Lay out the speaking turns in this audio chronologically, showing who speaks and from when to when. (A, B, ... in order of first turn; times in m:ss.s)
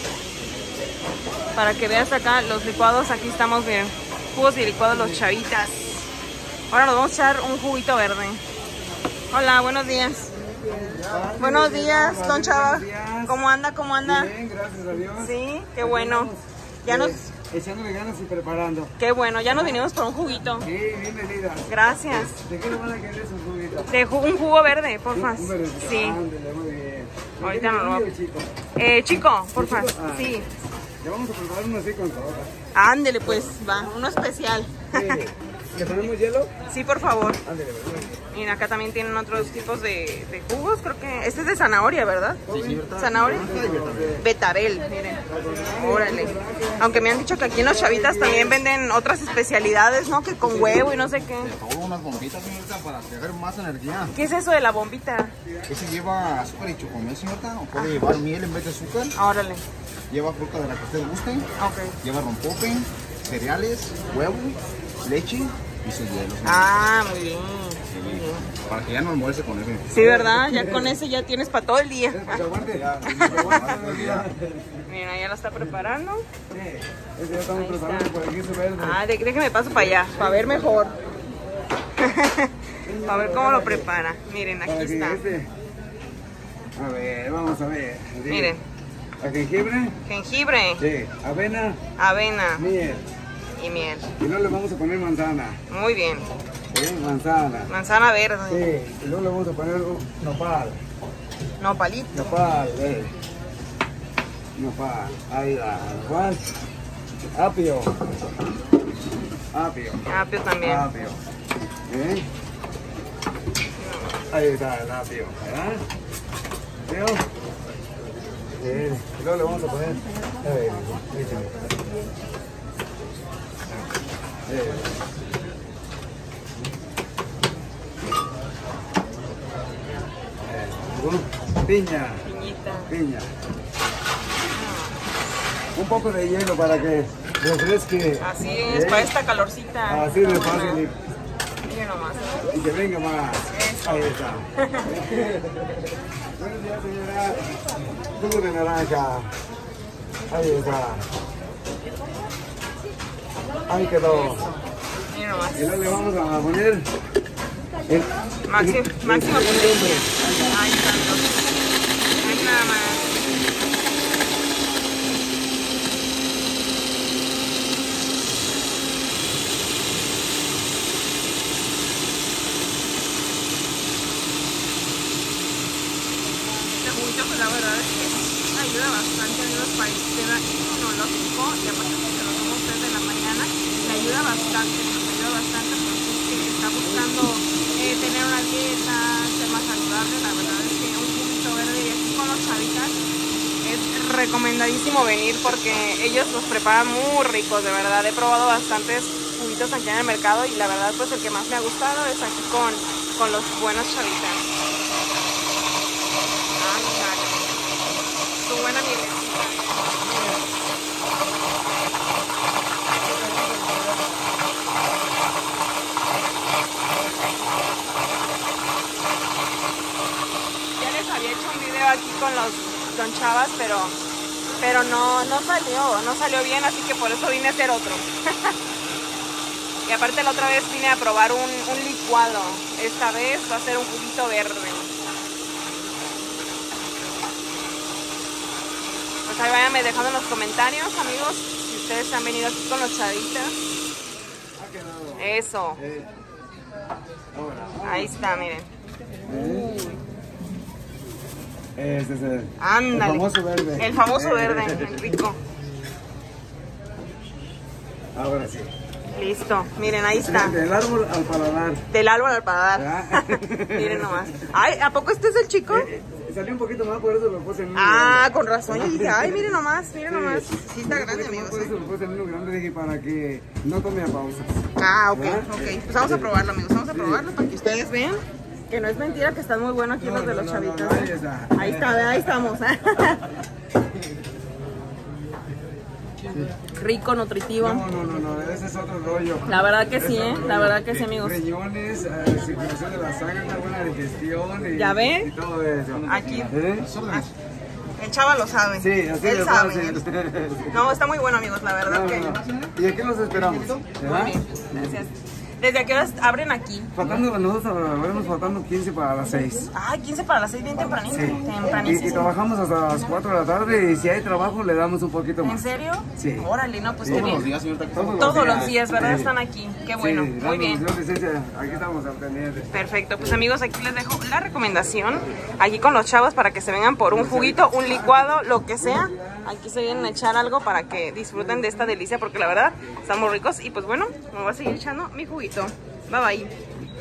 0:01.6-0:06.1 A
0:06.7-0:08.4 A
0:09.3-0:10.3 A
0:10.6-0:13.4 B
0:11.4-0:14.3 A
0:14.0-0:18.9 B
0:15.2-0:16.3 A
0:16.8-0:17.2 A
0:19.0-0:20.7 A
0:20.6-0:23.9 B
0:21.7-0:22.4 A
0:23.9-0:26.2 A
0:25.1-0:28.5 B
0:27.4-0:28.1 A
0:28.8-0:30.5 A
0:29.6-0:30.4 B
0:31.0-0:32.5 B
0:32.7-0:35.2 A
0:34.9-0:36.5 B
0:36.7-0:37.4 A
0:37.4-0:38.2 B
0:38.3-0:43.5 A
0:42.5-0:44.2 B
0:42.5-0:44.2 C
0:44.1-0:45.2 A
0:45.3-0:47.0 B
0:45.8-0:51.5 A
0:47.6-0:48.6 B
0:50.4-0:51.1 B
0:51.4-0:54.2 C
0:54.1-0:55.3 A
0:55.7-0:59.2 C
0:57.7-0:58.1 A
0:59.2-0:59.6 A
1:00.1-1:01.5 C
1:01.6-1:02.0 A
1:02.0-1:06.8 C
1:06.4-1:08.5 A
1:07.9-1:10.0 C
1:09.9-1:12.4 A
1:10.0-1:11.0 B
1:12.1-1:14.8 B
1:12.6-1:14.3 C
1:13.0-1:13.8 A
1:14.8-1:16.2 A
1:16.5-1:19.0 B
1:17.5-1:18.1 A
1:18.8-1:21.0 A
1:19.8-1:20.8 B
1:22.0-1:25.2 A
1:22.8-1:23.9 B
1:24.7-1:25.5 B
1:26.8-1:28.6 B
1:28.3-1:28.6 A
1:29.2-1:30.0 B
1:30.0-1:30.8 A
1:30.8-1:31.8 B
1:32.0-1:32.6 A
1:32.6-1:33.1 B
1:33.6-1:34.1 A
1:34.2-1:35.6 B
1:35.7-1:36.3 A
1:36.7-1:37.7 B
1:37.7-1:38.7 A
1:38.5-1:40.8 B
1:41.6-1:42.4 A
1:42.2-1:43.1 B
1:44.6-1:46.5 B
1:47.3-1:48.0 B
1:49.5-1:50.1 B
1:50.1-1:50.9 A
1:50.6-1:51.2 B
1:51.9-1:52.3 B
1:53.8-1:54.2 A
1:54.3-1:55.8 B
1:56.9-1:57.2 B
1:58.6-2:01.5 B
2:04.5-2:04.9 B
2:10.4-2:12.2 B
2:12.2-2:12.9 A
2:12.9-2:13.3 B
2:14.5-2:15.1 A
2:15.8-2:19.1 B
2:18.2-2:20.8 A
2:19.9-2:21.0 B
2:21.6-2:22.5 A
2:22.5-2:25.9 B
2:23.4-2:25.0 A
2:26.4-2:27.5 B
2:28.1-2:29.4 B
2:30.3-2:31.1 B
2:33.7-2:34.5 B
2:35.1-2:35.8 A
2:35.5-2:36.9 B
2:37.9-2:40.5 B
2:38.5-2:41.4 A
2:42.2-2:43.1 A
2:56.7-3:13.0 A
3:13.6-3:24.4 A
3:26.6-3:27.5 A
3:28.4-3:30.0 A
3:30.1-3:30.4 B
3:40.8-3:44.0 A
3:44.6-3:48.6 A
3:49.9-3:54.9 A
3:59.3-4:03.6 A
4:04.6-4:06.1 B
4:05.2-4:05.8 A
4:07.3-4:08.1 B
4:07.8-4:08.7 A
4:09.3-4:09.8 B
4:09.3-4:10.0 A
4:11.8-4:15.1 B
4:12.6-4:15.4 A
4:18.2-4:18.7 B
4:19.1-4:20.6 A
4:20.2-4:21.8 B
4:21.9-4:25.9 A
4:22.8-4:24.3 B
4:25.7-4:34.6 B
4:27.8-4:31.7 A
4:34.8-4:43.3 A
4:35.1-4:36.3 B
4:36.9-4:37.2 B
4:40.0-4:42.1 B
4:46.7-4:47.8 A
4:47.6-4:56.9 B
4:49.4-4:51.4 A
4:54.7-4:55.3 A
4:56.1-4:56.6 A
4:56.8-4:57.3 C
4:58.0-5:00.0 A
4:58.8-5:00.8 B
5:00.7-5:02.4 A
5:01.9-5:05.0 B
5:02.3-5:02.7 C
5:03.4-5:03.9 C
5:04.0-5:06.9 A
5:07.0-5:09.7 B
5:09.7-5:12.3 A
5:11.1-5:15.6 B
5:15.4-5:17.5 A
5:16.2-5:16.5 B
5:17.0-5:17.4 B
5:17.1-5:18.5 C
5:18.0-5:19.3 B
5:18.2-5:20.8 A
5:20.0-5:22.7 B
5:22.7-5:36.5 A
5:27.1-5:30.1 B
5:31.4-5:31.9 B